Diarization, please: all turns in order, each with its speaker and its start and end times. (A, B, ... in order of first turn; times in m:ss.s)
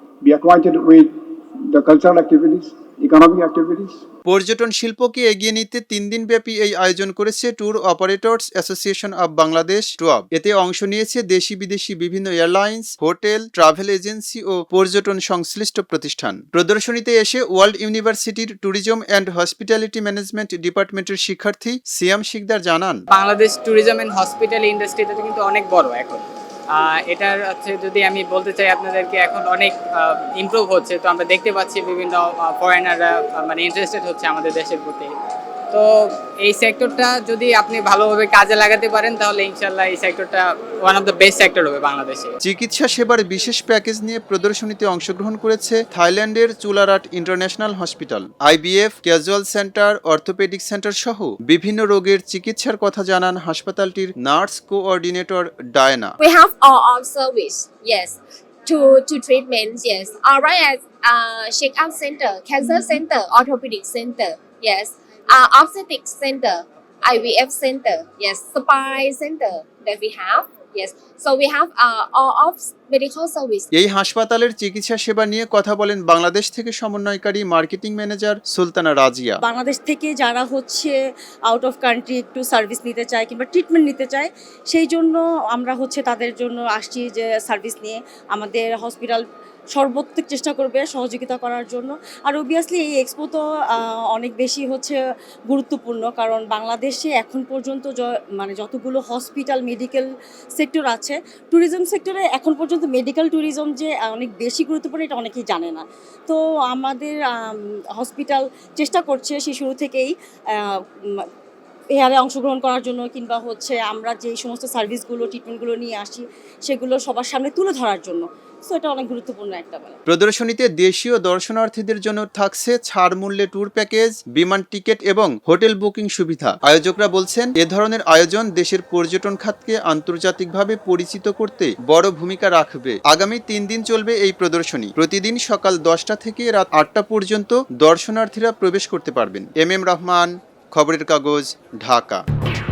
0:00.2-0:04.0 A
0:04.3-0:23.0 B
0:23.1-0:35.1 C
0:36.4-0:42.3 C
0:42.4-0:56.2 B
0:56.2-1:13.7 D
1:13.7-1:19.4 B
1:19.4-1:21.0 E
1:21.5-1:29.2 E
1:29.8-1:35.0 E
1:35.5-1:50.1 E
1:50.7-1:51.2 E
1:52.0-2:00.0 E
2:00.1-2:22.2 B